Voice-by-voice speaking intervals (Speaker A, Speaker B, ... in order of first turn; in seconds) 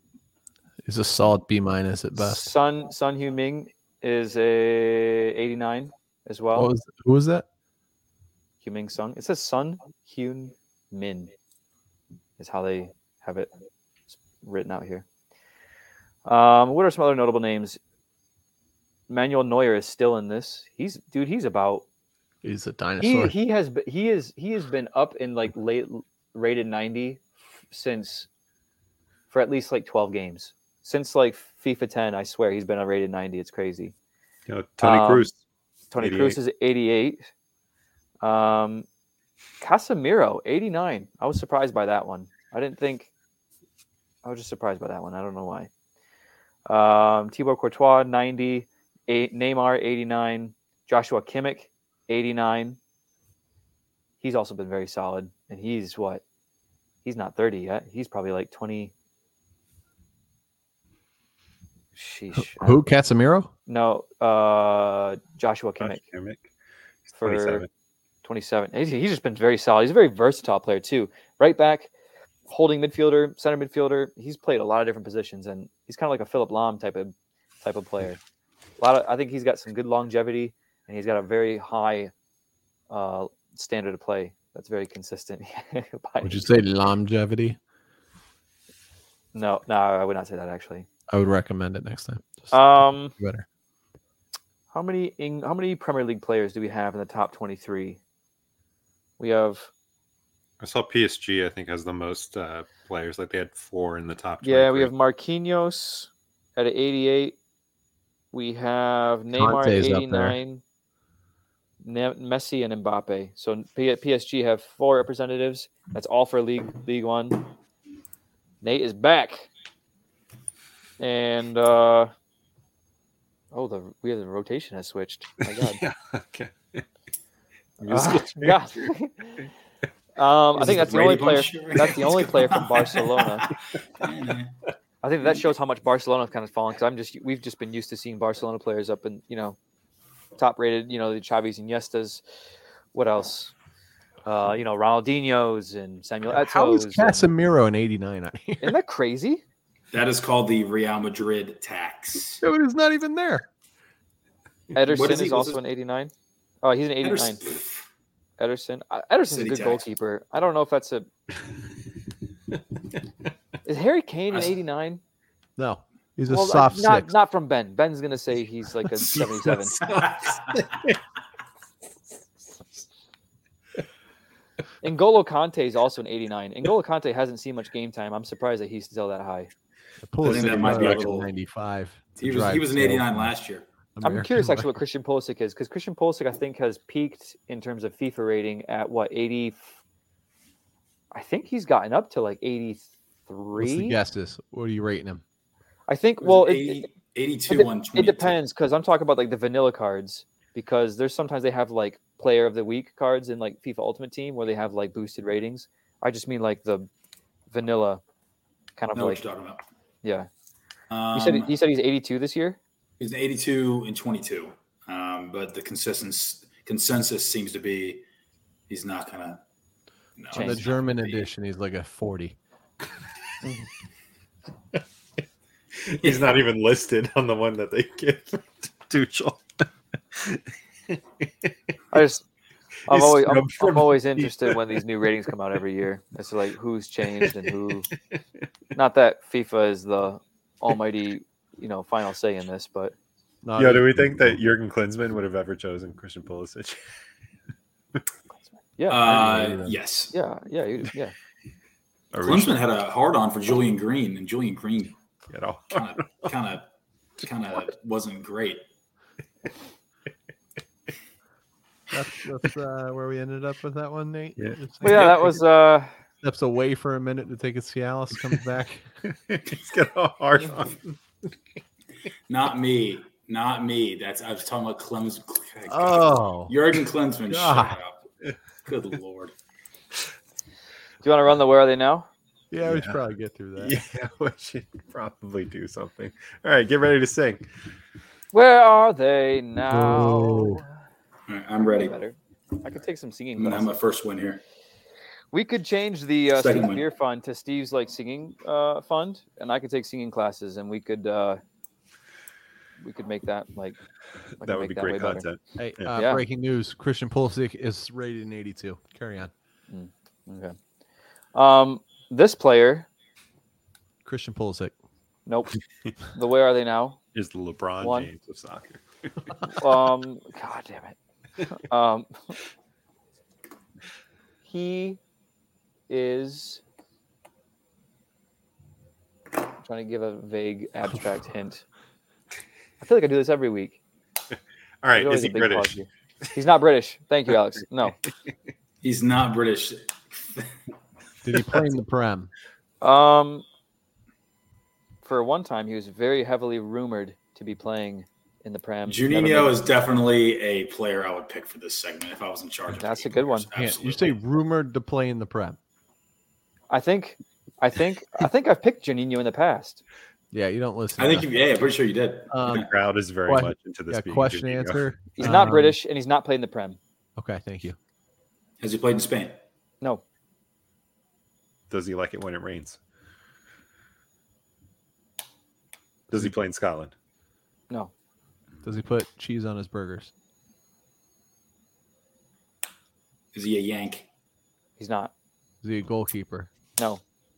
Speaker A: 0.8-2.5, 6.5-7.4, 22.4-23.3, 62.4-63.5, 86.2-87.6, 91.1-93.4, 109.3-110.4, 146.2-148.8, 152.4-153.5, 165.6-167.1, 180.0-183.3, 183.9-184.7, 193.6-195.2, 220.3-222.3, 243.4-244.4, 249.0-249.8, 261.9-265.3, 266.2-268.9, 275.7-276.5, 277.3-277.8, 282.5-283.8, 289.7-290.6, 305.6-309.3, 314.0-314.7, 341.2-342.3, 353.5-355.6, 360.3-361.3, 362.3-362.7, 363.2-365.8, 367.1-367.8, 378.6-380.1, 385.6-386.5
Speaker B: 2.1-6.7, 8.6-11.3, 12.4-13.5, 14.1-15.0, 16.2-17.8, 19.1-21.8, 23.0-28.3, 29.3-33.9, 34.8-35.3, 35.9-37.3, 38.2-38.9, 39.6-43.1, 44.2-45.7, 46.6-52.8, 54.2-56.2, 57.0-58.9, 62.0-62.8, 63.7-66.0, 67.2-67.7, 68.2-71.9, 72.5-78.2, 78.8-82.1, 82.9-86.5, 89.3-90.9, 92.5-93.1, 94.7-98.0, 99.2-99.7, 104.4-107.3, 108.3-110.6, 111.8-117.5, 118.6-119.5, 121.0-122.1, 123.5-125.8, 127.8-129.5, 130.2-133.5, 135.0-139.6, 140.4-142.2, 142.9-143.5, 144.2-147.3, 148.6-149.4, 154.7-156.1, 156.6-157.4, 158.4-161.1, 163.6-165.0, 166.3-169.8, 174.8-179.5, 184.0-189.7, 191.1-194.0, 195.9-196.9, 197.5-206.9, 207.5-208.0, 208.8-209.2, 210.0-210.3, 211.1-212.6, 220.3-220.7, 231.9-232.2, 232.9-237.9, 238.7-242.9, 248.8-249.2, 250.1-251.1, 264.8-265.9, 281.0-282.1, 288.3-290.7, 291.6-293.8, 295.3-301.4, 302.8-303.8, 304.4-305.2, 305.9-306.2, 309.7-310.6, 311.3-312.9, 315.3-315.5, 316.1-317.0, 317.8-318.1, 319.5-320.9, 321.5-322.3, 324.4-325.0, 325.9-326.6, 329.6-331.6, 332.8-333.8, 334.9-338.0, 342.8-343.4, 345.0-349.6, 352.8-353.5, 356.7-359.8, 365.1-366.8, 384.8-385.1
Speaker C: 34.5-35.4, 36.0-36.4, 65.8-66.5, 67.1-67.7, 100.6-104.9, 125.5-126.8, 127.8-128.9, 170.6-170.9, 180.2-181.0, 225.8-229.4, 232.9-234.6, 243.6-246.8, 252.1-252.6, 255.3-256.3, 264.4-265.3, 269.3-271.0, 282.6-283.0, 283.6-287.4, 304.4-305.9, 317.1-319.1, 334.8-335.8, 362.5-364.9, 371.7-372.8, 376.1-376.9
Speaker D: 130.5-134.5, 149.9-152.4, 154.8-155.6, 157.0-157.8, 159.3-159.8, 169.0-170.6, 180.2-181.3, 182.2-183.7, 196.2-198.3, 208.9-209.6, 210.9-211.5, 213.0-218.0, 218.7-219.4, 220.2-221.2, 226.0-226.4, 248.9-250.2, 252.2-254.9, 255.7-256.7, 257.2-258.6, 272.3-278.0, 278.6-279.3, 291.3-291.9, 293.4-294.4, 296.3-296.8, 338.8-340.5, 348.9-354.2, 361.0-362.7, 368.6-369.4, 383.3-384.1